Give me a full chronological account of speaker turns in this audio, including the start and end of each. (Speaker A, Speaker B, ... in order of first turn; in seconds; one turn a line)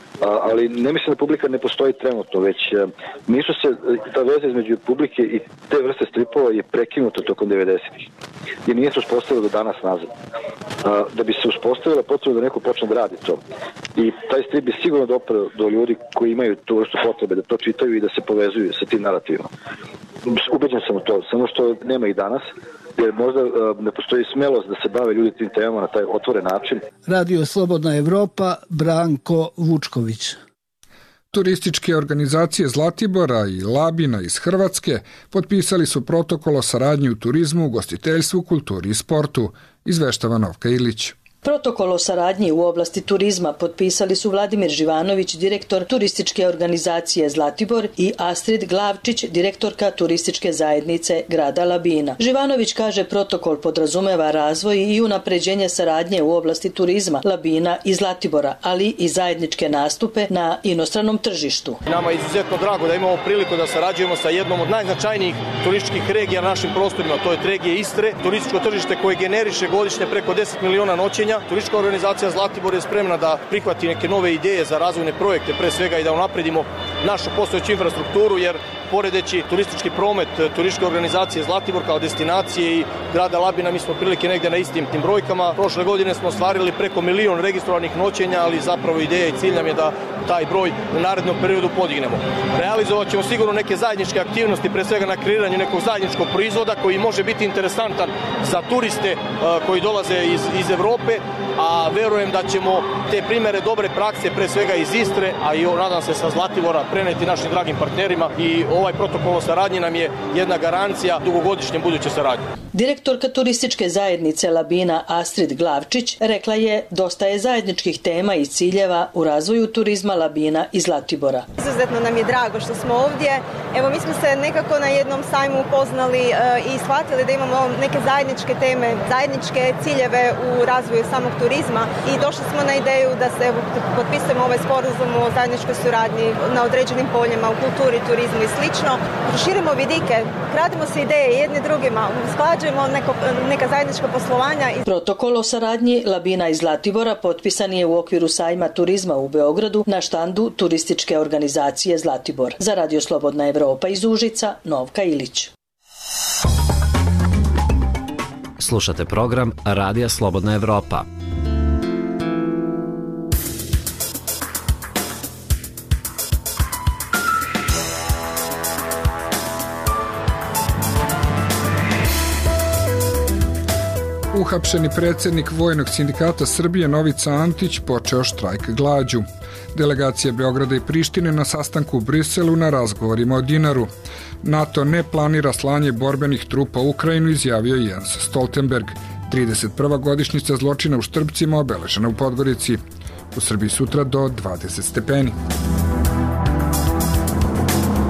Speaker A: 0.2-8.1
Speaker A: 8.7-10.1
Speaker A: 10.8-13.4
Speaker A: 13.9-19.5
Speaker A: 20.3-22.5
Speaker A: 23.0-26.8
Speaker B: 27.1-30.4
Speaker C: 31.3-41.2
Speaker D: 41.4-61.8
Speaker E: 61.9-112.4
Speaker D: 112.7-121.5
Speaker F: 121.6-144.8
Speaker D: 144.8-155.5
Speaker G: 158.6-161.1
Speaker C: 174.3-183.9
Speaker C: 184.4-192.8
Speaker C: 193.3-195.3